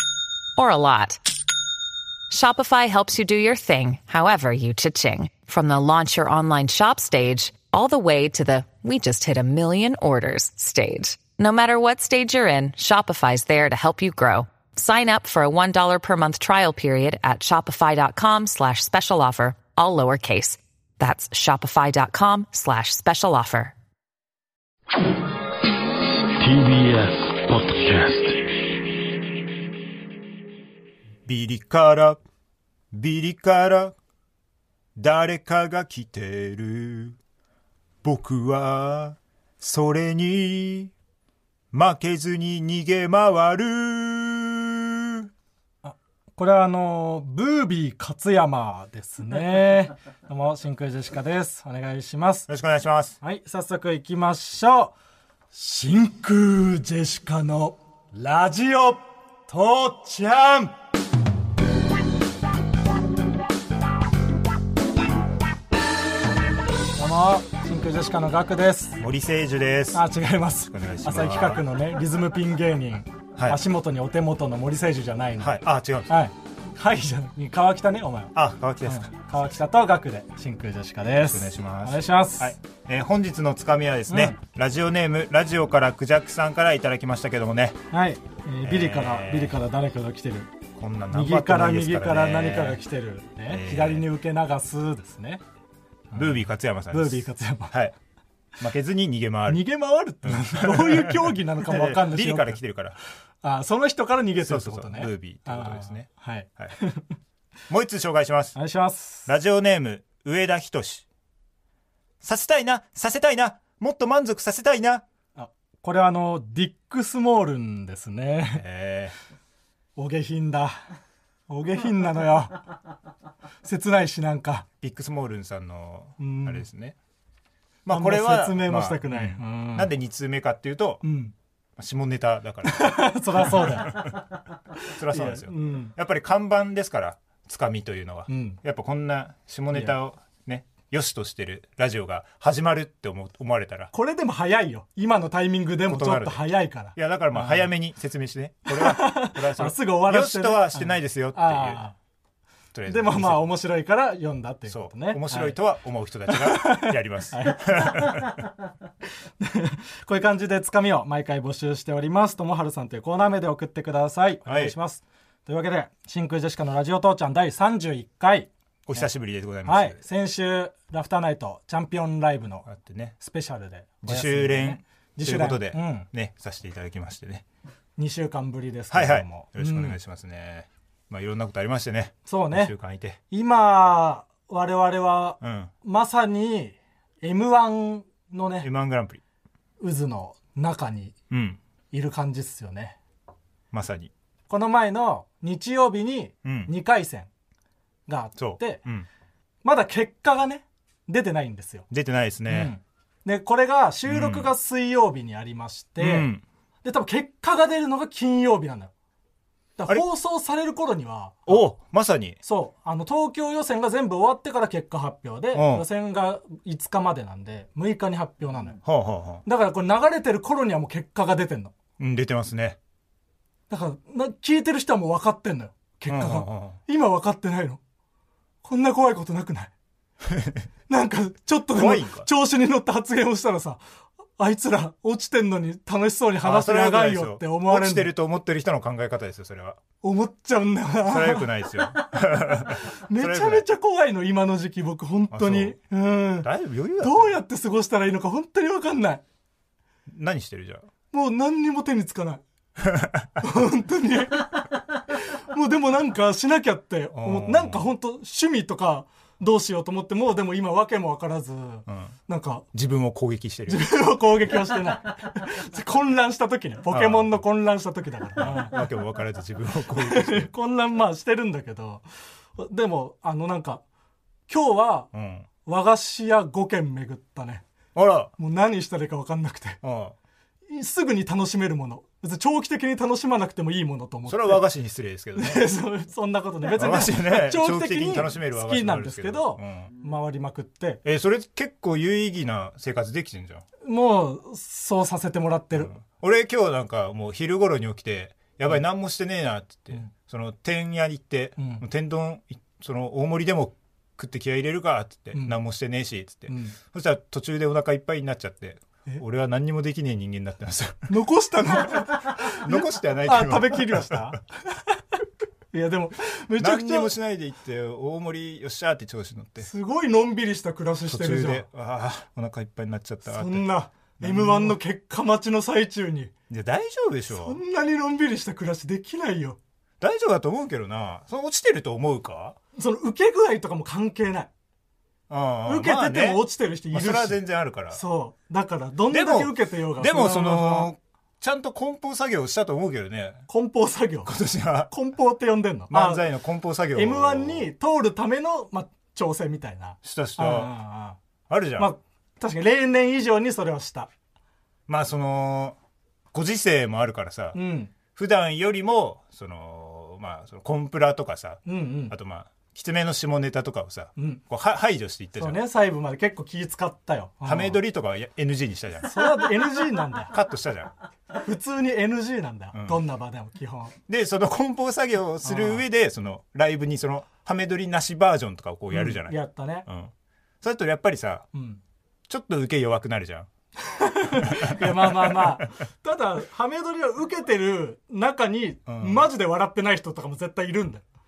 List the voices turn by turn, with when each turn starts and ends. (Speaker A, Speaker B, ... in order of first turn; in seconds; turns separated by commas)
Speaker A: 0.6-1.2, Speaker A: 2.3-23.7, Speaker B: 26.4-28.5, Speaker C: 31.2-32.2, Speaker C: 32.9-34.0, Speaker C: 35.0-37.2, Speaker C: 38.0-40.9, Speaker C: 41.7-45.3, Speaker D: 45.8-52.5, Speaker C: 52.5-53.2, Speaker D: 53.2-55.0, Speaker D: 55.5-60.7, Speaker D: 67.0-69.0, Speaker C: 69.0-70.0, Speaker D: 69.9-82.5, Speaker C: 70.6-71.6, Speaker C: 73.3-73.6, Speaker C: 75.4-76.2, Speaker C: 78.3-79.3, Speaker C: 81.2-87.8, Speaker D: 84.1-84.4, Speaker D: 87.9-90.5, Speaker C: 88.6-89.6, Speaker C: 90.8-92.8, Speaker D: 91.1-95.4, Speaker C: 93.5-94.1, Speaker D: 96.1-96.4, Speaker C: 96.1-98.0, Speaker D: 96.9-97.7, Speaker C: 98.6-99.7, Speaker D: 99.5-102.6, Speaker C: 100.2-103.0, Speaker D: 103.4-107.0, Speaker C: 104.4-106.1, Speaker C: 107.7-108.5, Speaker D: 108.5-109.3, Speaker C: 109.3-111.0, Speaker C: 112.2-115.0, Speaker D: 115.3-118.6, Speaker C: 118.5-119.1, Speaker D: 120.0-120.8, Speaker D: 121.5-122.7, Speaker D: 123.6-124.7, Speaker C: 124.8-127.0, Speaker D: 126.2-126.7, Speaker C: 127.8-131.0, Speaker D: 127.9-129.9, Speaker D: 131.0-131.3, Speaker C: 131.8-134.2, Speaker D: 132.6-135.9, Speaker C: 134.9-143.9, Speaker D: 138.3-138.6, Speaker D: 143.9-147.7, Speaker C: 145.8-151.8, Speaker D: 148.7-151.9, Speaker C: 152.7-153.4, Speaker D: 152.9-155.6, Speaker C: 154.7-158.4, Speaker D: 156.3-158.4, Speaker D: 159.4-169.1, Speaker C: 164.4-164.8, Speaker C: 168.9-170.0, Speaker D: 169.6-172.7, Speaker C: 172.7-173.2, Speaker D: 173.2-176.1, Speaker C: 174.0-177.4, Speaker D: 178.0-180.0, Speaker C: 178.9-183.2, Speaker D: 182.2-182.7, Speaker D: 183.3-188.7, Speaker C: 185.4-185.7, Speaker C: 188.6-189.2, Speaker D: 189.8-191.1, Speaker C: 191.3-191.6, Speaker D: 191.9-193.0, Speaker C: 193.7-194.1, Speaker D: 194.5-197.3, Speaker C: 196.4-196.7, Speaker D: 198.1-198.8, Speaker C: 198.4-199.1, Speaker D: 199.6-201.9, Speaker C: 201.9-202.7, Speaker D: 202.5-206.3, Speaker C: 204.1-204.5, Speaker C: 206.0-206.4, Speaker D: 206.8-208.9, Speaker D: 209.8-211.7, Speaker C: 211.5-212.4, Speaker D: 212.4-218.8, Speaker C: 215.5-215.8, Speaker C: 218.8-219.4, Speaker D: 219.4-221.7, Speaker C: 222.0-222.8, Speaker D: 223.7-227.8, Speaker C: 226.1-226.8, Speaker D: 228.6-229.7, Speaker C: 230.2-230.7, Speaker D: 230.9-233.8, Speaker C: 231.7-232.3, Speaker D: 234.4-238.1, Speaker C: 236.4-239.8, Speaker D: 240.0-246.5, Speaker C: 241.0-243.7, Speaker C: 245.3-245.8, Speaker C: 246.4-247.3, Speaker D: 247.0-249.2, Speaker C: 250.1-250.9, Speaker D: 251.1-252.4, Speaker C: 252.8-253.4, Speaker D: 253.4-262.7, Speaker C: 257.1-257.9, Speaker C: 261.9-262.1, Speaker C: 262.7-263.9, Speaker D: 263.7-268.8, Speaker C: 266.9-267.4, Speaker C: 268.4-270.5, Speaker D: 269.9-272.0, Speaker D: 272.6-273.8, Speaker D: 274.5-275.1, Speaker C: 275.1-275.5, Speaker D: 275.6-277.6, Speaker C: 277.9-278.3, Speaker D: 278.4-279.8, Speaker C: 279.8-280.1, Speaker D: 280.7-284.6, Speaker C: 284.3-285.6, Speaker D: 285.4-291.0, Speaker C: 286.7-289.9, Speaker C: 291.1-293.6, Speaker D: 293.8-295.9, Speaker C: 295.8-311.1, Speaker D: 301.6-301.8, Speaker D: 306.5-306.8, Speaker D: 311.1-314.4, Speaker C: 311.9-314.4, Speaker D: 315.7-317.1, Speaker C: 316.6-319.7, Speaker D: 319.6-321.6, Speaker C: 321.1-323.7, Speaker D: 323.2-326.3, Speaker C: 324.2-324.8, Speaker C: 326.5-327.6, Speaker D: 327.3-329.6, Speaker C: 330.0-332.6, Speaker D: 332.8-334.5, Speaker C: 335.3-338.0, Speaker D: 335.6-337.4, Speaker D: 337.9-340.9, Speaker C: 339.1-343.4, Speaker D: 343.5-344.3, Speaker C: 344.2-344.9, Speaker D: 344.9-346.2, Speaker C: 345.9-347.7, Speaker D: 346.9-351.2, Speaker C: 350.0-350.7, Speaker C: 351.5-351.9, Speaker D: 351.8-354.1, Speaker C: 354.9-355.8, Speaker C: 356.3-357.6, Speaker D: 357.5-357.9, Speaker C: 358.1-365.6, Speaker D: 361.6-362.1, Speaker D: 364.1-364.4, Speaker D: 365.4-367.8, Speaker C: 367.4-369.5, Speaker D: 369.0-370.3, Speaker C: 370.3-370.9, Speaker D: 371.3-373.9, Speaker C: 372.7-373.0, Speaker C: 374.1-381.5, Speaker D: 375.4-375.8, Speaker D: 378.9-379.9, Speaker D: 381.5-381.8, Speaker C: 382.3-383.5, Speaker D: 383.8-391.0, Speaker C: 384.4-385.6, Speaker C: 388.9-389.3